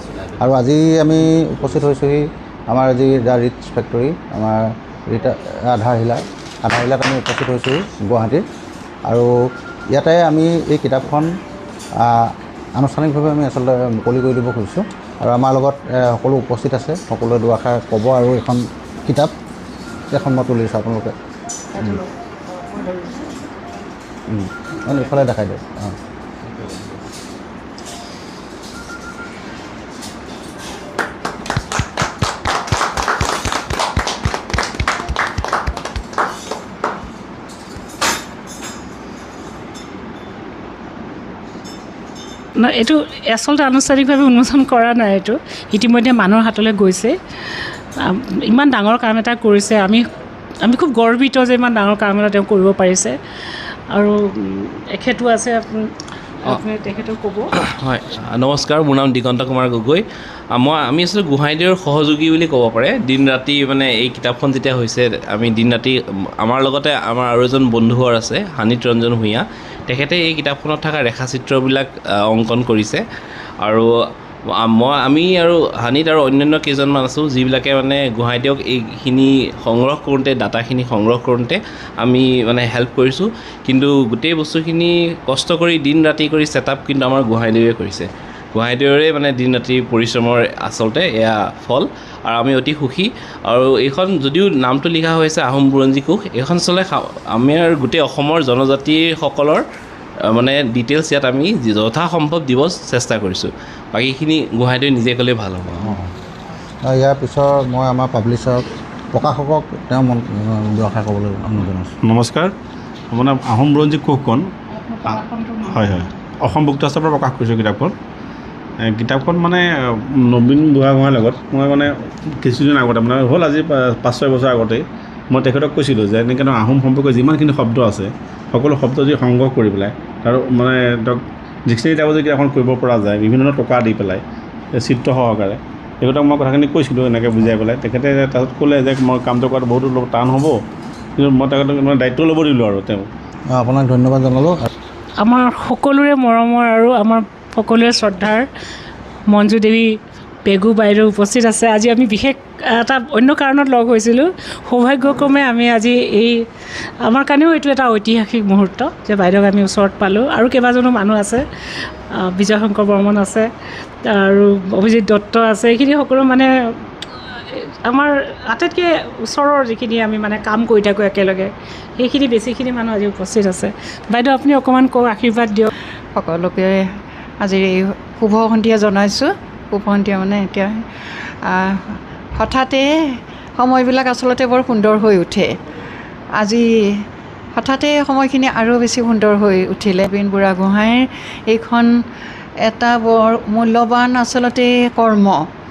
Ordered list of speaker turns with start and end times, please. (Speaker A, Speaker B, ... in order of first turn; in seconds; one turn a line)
Speaker A: 0.4-8.4
Speaker A: 9.9-11.3
Speaker A: 12.0-19.3
Speaker A: 20.1-21.1
Speaker B: 22.7-23.2
Speaker A: 24.3-25.9
Speaker B: 42.6-47.1
Speaker B: 48.0-50.0
Speaker B: 50.6-53.1
Speaker B: 53.9-55.9
Speaker B: 56.5-57.5
Speaker C: 57.7-60.0
Speaker C: 60.5-73.0
Speaker C: 74.6-99.6
Speaker C: 100.3-105.9
Speaker A: 105.8-106.1
Speaker A: 106.8-111.9
Speaker D: 112.0-112.5
Speaker D: 113.1-114.5
Speaker D: 115.0-117.9
Speaker D: 118.8-134.2
Speaker D: 134.7-140.6
Speaker D: 141.2-143.1
Speaker A: 143.5-144.7
Speaker B: 145.2-148.5
Speaker B: 149.3-149.9
Speaker B: 150.4-156.4
Speaker B: 157.0-161.4
Speaker B: 162.2-163.5
Speaker B: 164.1-166.5
Speaker B: 167.5-175.7
Speaker E: 176.1-176.8
Speaker E: 177.4-180.7
Speaker E: 181.4-182.9
Speaker E: 183.6-185.5
Speaker E: 186.4-186.6
Speaker E: 187.5-191.9
Speaker E: 192.6-195.4